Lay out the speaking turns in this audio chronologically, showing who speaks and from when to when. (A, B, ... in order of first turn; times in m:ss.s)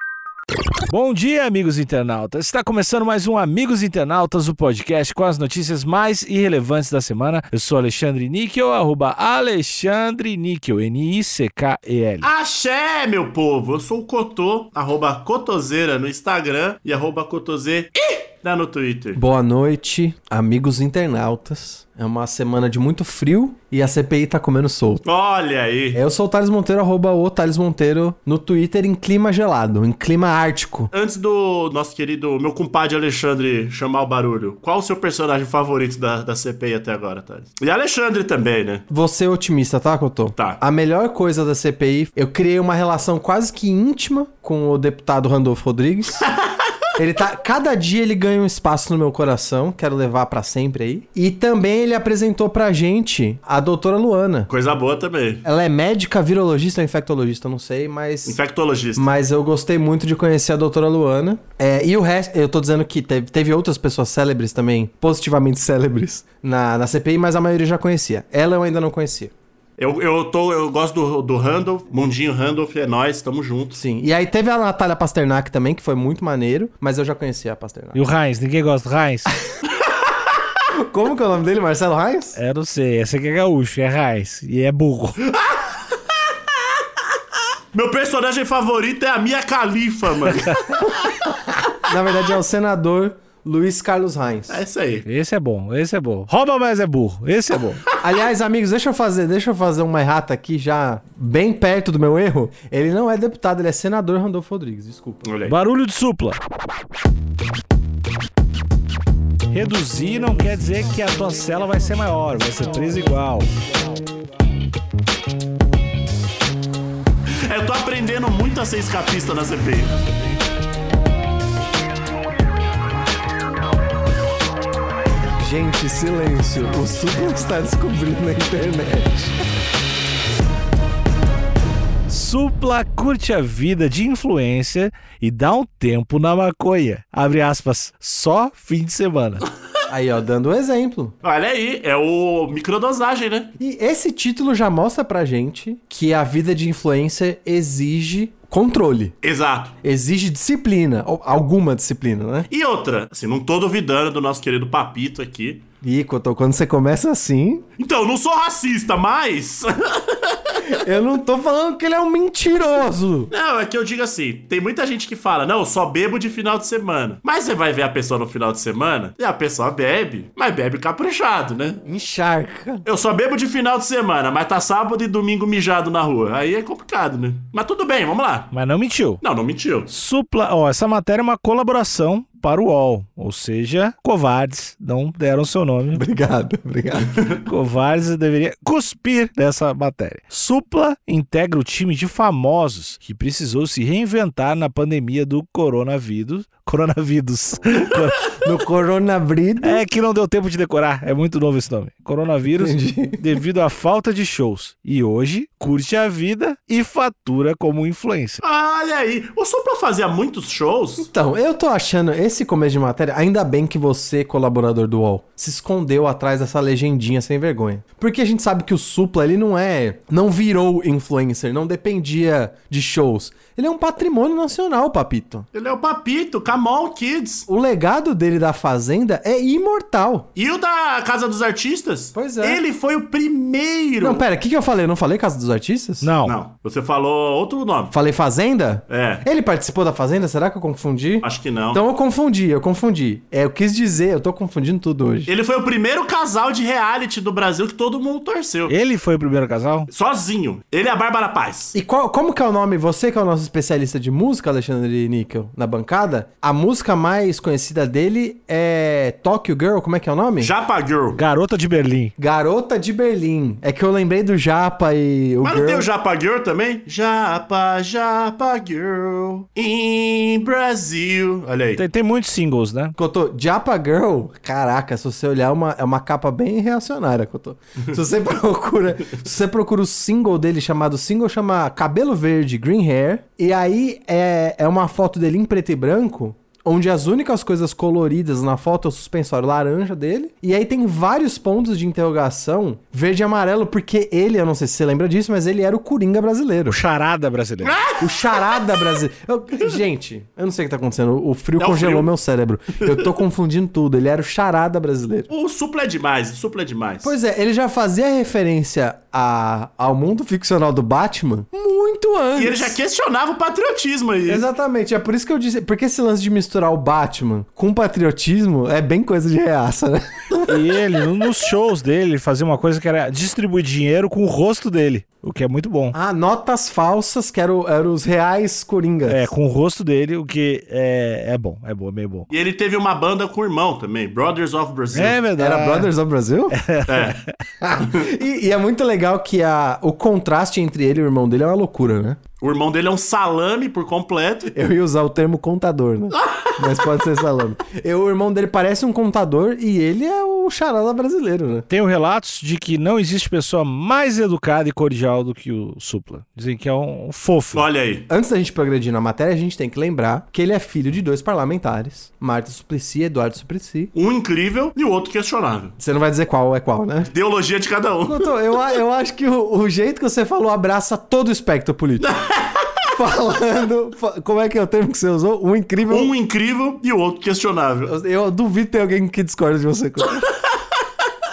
0:00.9-0:12.3 A
0:12.2-0:19.2 B
0:19.1-0:25.0 C
0:25.0-0:26.0 B
0:25.9-0:30.9 C
0:30.9-0:38.8 B
0:38.9-0:46.2 C
0:46.2-0:46.6 B
0:47.0-0:54.5 C
0:54.5-0:55.4 B
0:55.4-0:58.4 C
0:58.2-0:59.1 B
0:59.0-1:09.3 C
1:09.8-1:13.8 B
1:13.8-1:18.0 C
1:17.9-1:19.3 A
1:20.8-1:22.4 C
1:22.3-1:25.2 A
1:25.3-1:25.8 B
1:27.7-1:30.6 B
1:30.3-1:30.9 A
1:31.7-1:34.6 C
1:34.5-1:35.0 B
1:35.0-1:37.8 A
1:38.0-1:45.2 C
1:45.2-1:45.5 B
1:45.5-1:46.4 A
1:49.5-1:53.5 A
1:57.5-2:00.0 B
2:05.4-2:09.4 C
2:12.1-2:19.4 A
2:19.9-2:21.1 C
2:21.2-2:23.5 B
2:23.6-2:29.1 C
2:29.2-2:29.8 B
2:29.8-2:32.5 C
2:32.5-2:35.6 B
2:35.8-2:37.6 C
2:37.8-2:40.6 B
2:40.6-2:43.3 C
2:43.3-2:51.8 B
2:51.8-2:52.8 C
2:52.8-2:58.5 B
2:58.5-2:59.2 A
2:59.2-2:59.9 B
2:59.9-3:06.0 A
3:05.9-3:07.1 C
3:07.0-3:07.4 B
3:07.4-3:18.3 A
3:18.2-3:19.8 C
3:19.6-3:28.4 A
3:22.5-3:23.3 C
3:28.4-3:31.1 B
3:31.0-3:45.5 C
3:45.5-3:47.5 B
3:47.5-3:50.3 C
3:50.4-3:54.2 B
3:52.1-3:52.6 C
3:54.0-3:56.1 C
3:56.0-3:56.3 A
3:56.2-3:57.9 B
3:57.9-4:05.3 C
3:58.9-3:59.2 B
4:01.2-4:01.8 B
4:05.3-4:08.7 B
4:08.7-4:09.9 A
4:09.9-4:11.7 B
4:11.7-4:20.5 C
4:20.4-4:21.2 B
4:21.2-4:22.1 A
4:22.2-4:25.9 C
4:25.4-4:31.8 B
4:31.8-4:33.0 A
4:33.0-4:56.8 C
4:56.7-4:57.8 A
4:57.6-4:58.4 B
4:58.0-5:05.3 C
5:01.6-5:02.1 B
5:05.3-5:07.1 B
5:07.0-5:12.8 C
5:12.4-5:14.5 B
5:14.3-5:20.6 C
5:20.5-5:26.0 A
5:25.9-5:29.3 C
5:29.1-5:32.3 A
5:32.3-5:35.2 B
5:34.9-5:35.9 A
5:35.4-5:36.6 C
5:36.5-5:37.4 A
5:36.9-5:37.2 B
5:37.6-5:42.2 C
5:37.8-5:38.1 B
5:42.4-5:44.6 B
5:44.5-5:51.7 C
5:46.2-5:46.5 B
5:51.7-5:57.6 A
5:57.5-5:58.1 B
5:58.1-6:03.9 C
6:03.9-6:05.7 B
6:05.8-6:07.1 C
6:07.1-6:08.3 B
6:08.0-6:12.1 C
6:12.0-6:12.7 B
6:12.9-6:16.1 C
6:15.9-6:17.9 B
6:17.9-6:20.2 C